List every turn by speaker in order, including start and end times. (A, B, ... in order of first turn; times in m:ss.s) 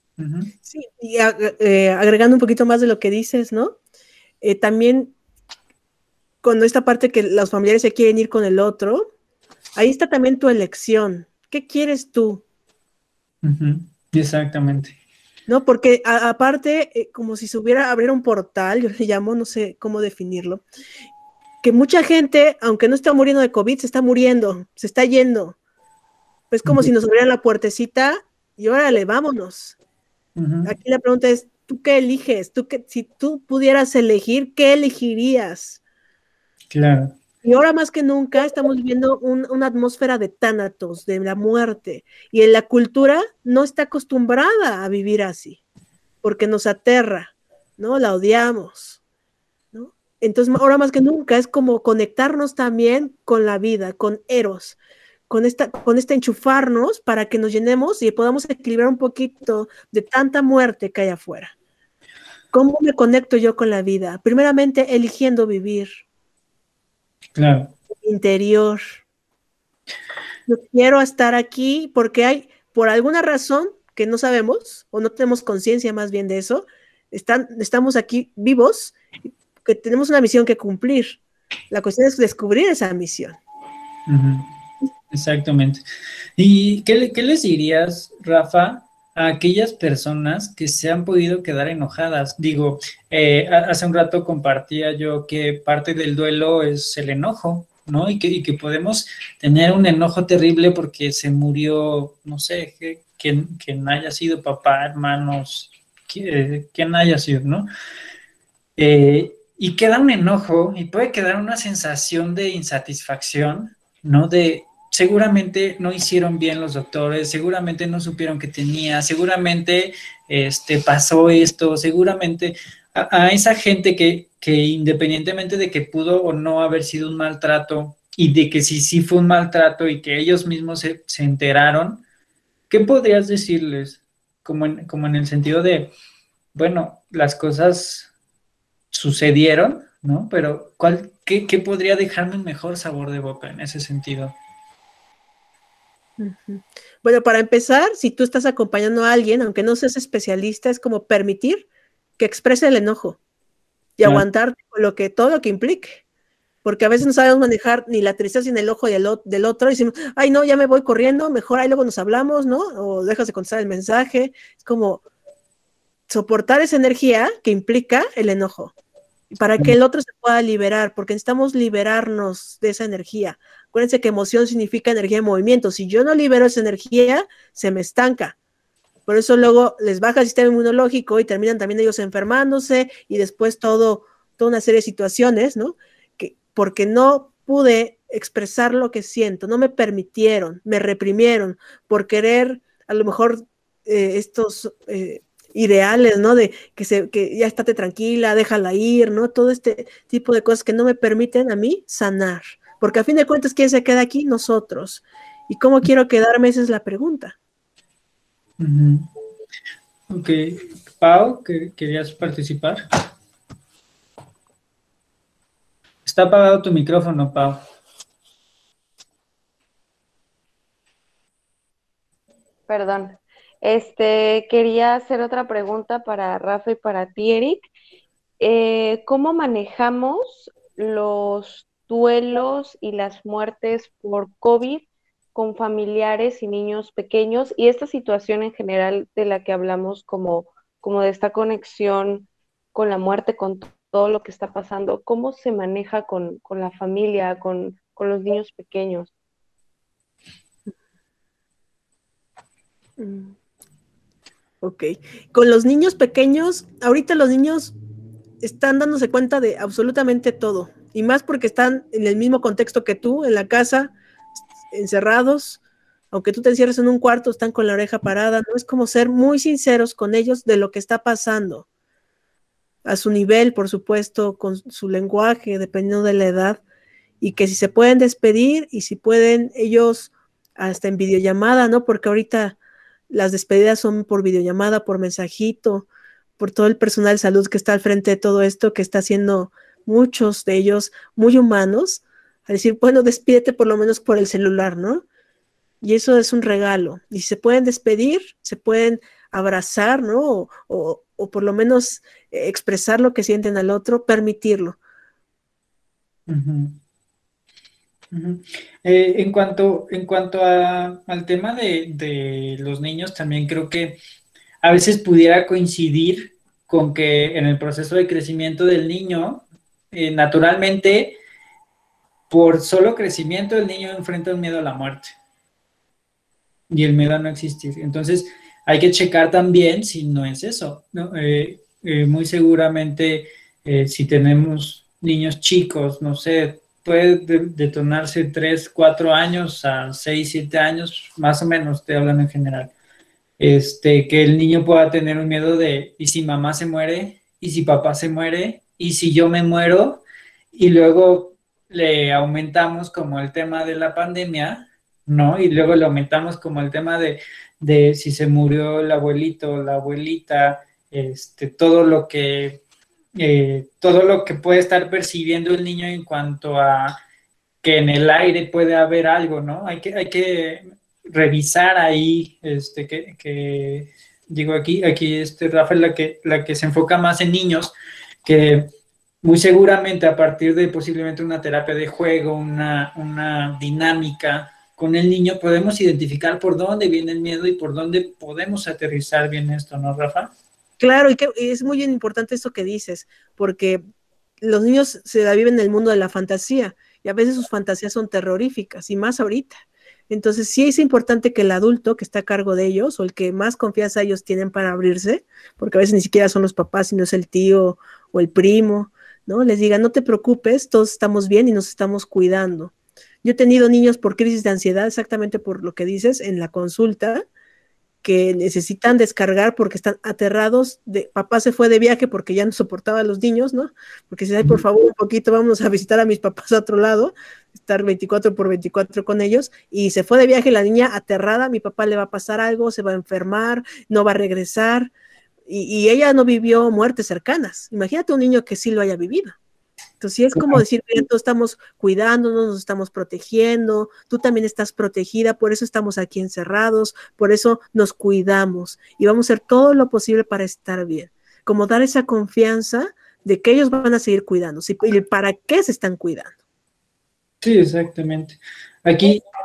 0:00.2-0:00.5 A
0:00.6-0:03.8 B
0:04.4-0:05.1 B
0:06.4-0:09.1 B
0:09.7-0:12.4 B
0:13.4-0:15.0 A
0:15.5-0:20.6 B
0:21.6-0:25.6 B
0:26.5-0:29.8 B
0:26.6-0:26.9 A
0:30.4-0:30.7 A
0:30.6-0:35.8 B
0:36.7-0:37.2 A
0:37.4-0:45.6 B
0:46.2-0:49.0 B
0:49.7-0:54.8 B
0:55.3-1:01.5 B
1:02.5-1:06.0 B
1:07.4-1:07.7 A
1:08.0-1:09.0 B
1:10.5-1:19.0 B
1:19.6-1:23.4 B
1:24.1-1:24.5 A
1:25.1-1:25.8 A
1:26.4-1:47.7 A
1:48.8-2:12.0 A
2:12.7-2:15.9 A
2:16.5-2:18.1 A
2:18.9-2:24.4 A
2:26.2-2:31.7 B
2:32.2-2:33.2 B
2:34.0-2:36.0 B
2:36.6-2:45.0 B
2:46.1-2:48.7 B
2:49.3-2:58.4 B
2:59.0-3:27.4 B
3:28.6-3:29.1 A
3:30.1-3:32.8 A
3:36.0-3:37.6 A
3:42.7-3:47.7 C
3:48.4-4:09.1 C
4:13.0-4:13.4 B
4:14.6-4:17.7 B
4:18.4-4:23.9 B
4:24.7-4:25.6 B
4:26.1-4:31.6 B
4:32.8-4:36.6 B
4:37.2-4:42.6 B
4:43.1-4:45.9 B
4:46.4-4:55.0 B
4:55.8-5:04.8 B
5:06.3-5:06.8 A
5:08.1-5:14.0 A
5:14.6-5:21.2 A
5:22.3-5:25.1 A
5:26.7-5:42.7 A
5:43.4-6:02.6 A
6:03.2-6:06.9 A
6:07.6-6:17.7 A
6:18.2-6:18.7 A
6:19.2-6:30.3 A
6:30.8-6:33.8 B
6:34.4-6:39.6 B
6:40.1-6:57.2 B
6:58.0-7:14.9 B
7:15.5-7:19.4 B
7:20.0-7:36.3 B
7:20.3-7:20.6 A
7:37.4-7:39.2 A